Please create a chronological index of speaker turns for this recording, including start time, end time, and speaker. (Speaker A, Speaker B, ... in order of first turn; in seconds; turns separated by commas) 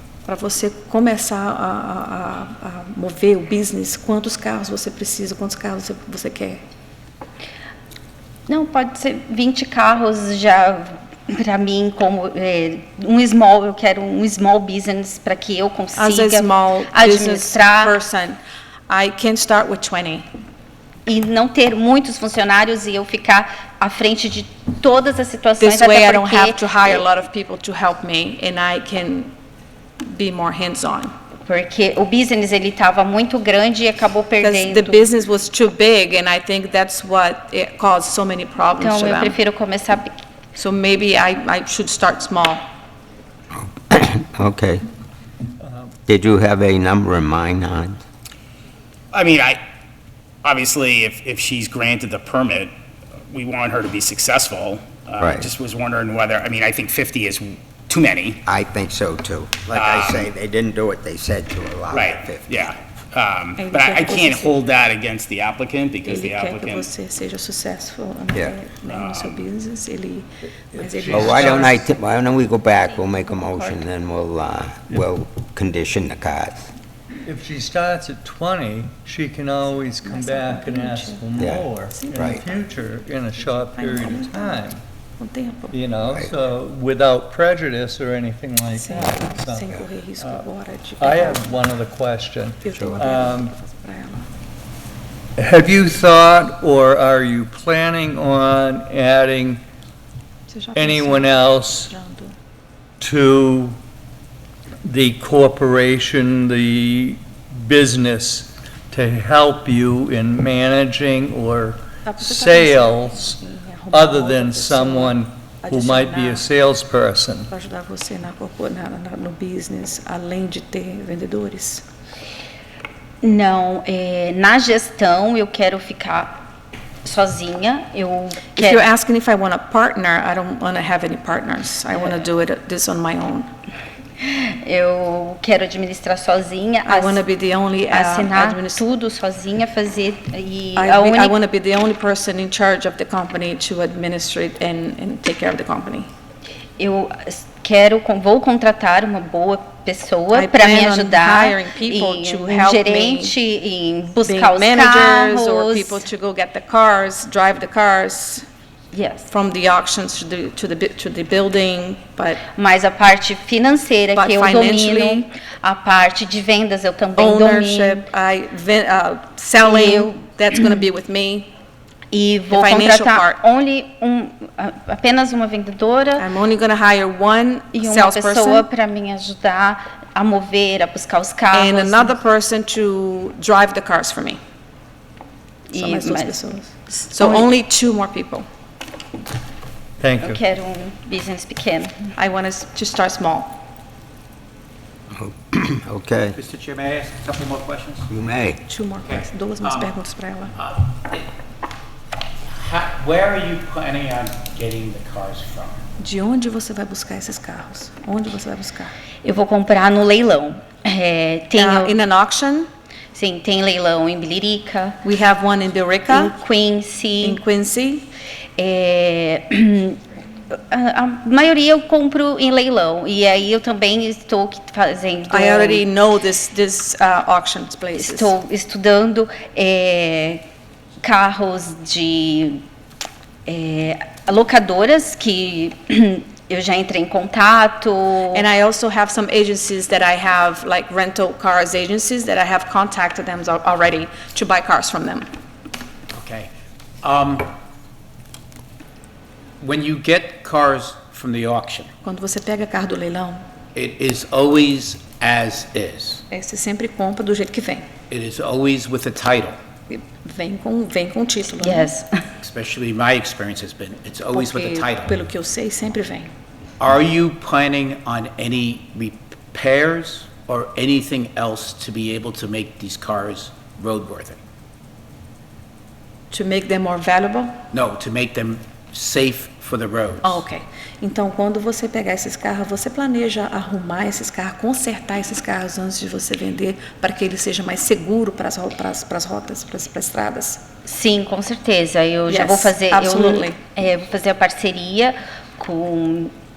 Speaker A: 0.2-6.6, Speaker B: 8.5-17.9, Speaker A: 15.9-20.3, Speaker B: 21.1-27.0, Speaker A: 25.6-29.3, Speaker A: 30.0-31.1, Speaker B: 31.4-35.0, Speaker A: 34.4-39.4, Speaker B: 38.8-40.1, Speaker A: 40.5-42.7, Speaker C: 43.8-44.8, Speaker D: 45.6-45.9, Speaker C: 46.1-48.0, Speaker E: 49.1-49.6, Speaker E: 50.4-52.7, Speaker E: 53.3-58.4, Speaker C: 55.2-55.5, Speaker C: 58.5-62.5, Speaker E: 59.7-60.3, Speaker E: 61.9-66.9, Speaker A: 63.6-64.6, Speaker A: 66.0-72.0, Speaker E: 68.8-69.5, Speaker D: 70.7-71.9, Speaker C: 71.1-76.7, Speaker D: 77.2-84.8, Speaker A: 80.0-81.3, Speaker C: 81.4-82.4, Speaker A: 81.9-82.6, Speaker A: 83.4-85.8, Speaker D: 85.7-90.4, Speaker A: 88.8-91.6, Speaker D: 91.0-93.5, Speaker A: 92.6-94.3, Speaker D: 95.4-99.6, Speaker A: 100.5-102.3, Speaker D: 100.7-101.9, Speaker D: 103.0-103.8, Speaker D: 104.8-113.4, Speaker A: 112.0-116.5, Speaker D: 113.9-117.5, Speaker A: 117.5-121.8, Speaker B: 123.2-126.3, Speaker B: 127.0-128.9, Speaker A: 128.5-133.5, Speaker B: 134.2-137.2, Speaker A: 136.8-138.8, Speaker B: 137.9-141.4, Speaker A: 140.8-146.1, Speaker B: 146.8-156.0, Speaker A: 150.3-153.3, Speaker A: 154.2-158.4, Speaker B: 158.9-159.3, Speaker A: 159.3-162.4, Speaker B: 162.6-168.0, Speaker A: 164.1-165.2, Speaker A: 167.2-171.5, Speaker B: 169.6-170.2, Speaker B: 172.1-176.2, Speaker A: 172.5-173.4, Speaker A: 176.2-178.7, Speaker B: 177.7-182.1, Speaker A: 181.5-184.4, Speaker B: 185.7-186.4, Speaker A: 185.7-188.4, Speaker B: 187.1-187.5, Speaker D: 190.0-190.4, Speaker B: 190.3-192.1, Speaker A: 192.2-193.6, Speaker C: 195.1-196.4, Speaker F: 196.3-198.1, Speaker C: 198.1-198.6, Speaker A: 198.7-200.5, Speaker F: 199.0-199.9, Speaker F: 200.5-201.2, Speaker F: 202.5-205.8, Speaker A: 206.0-208.9, Speaker B: 209.2-212.0, Speaker A: 211.5-212.7, Speaker B: 213.1-215.0, Speaker A: 215.0-216.3, Speaker B: 216.1-217.4, Speaker A: 217.2-218.1, Speaker B: 218.6-220.0, Speaker B: 220.5-225.8, Speaker A: 225.3-228.3, Speaker B: 227.9-230.4, Speaker B: 231.0-232.6, Speaker B: 233.5-238.4, Speaker A: 238.3-245.3, Speaker F: 246.1-246.5, Speaker F: 247.0-247.5, Speaker F: 249.6-251.9, Speaker A: 252.0-253.4, Speaker F: 253.7-256.2, Speaker A: 256.3-257.8, Speaker F: 258.1-259.6, Speaker A: 259.9-261.9, Speaker B: 261.6-262.2, Speaker F: 262.4-265.1, Speaker A: 264.3-266.3, Speaker F: 266.8-274.4, Speaker A: 276.3-277.6, Speaker F: 277.7-280.4, Speaker A: 280.2-290.6, Speaker B: 290.9-296.2, Speaker A: 292.3-293.6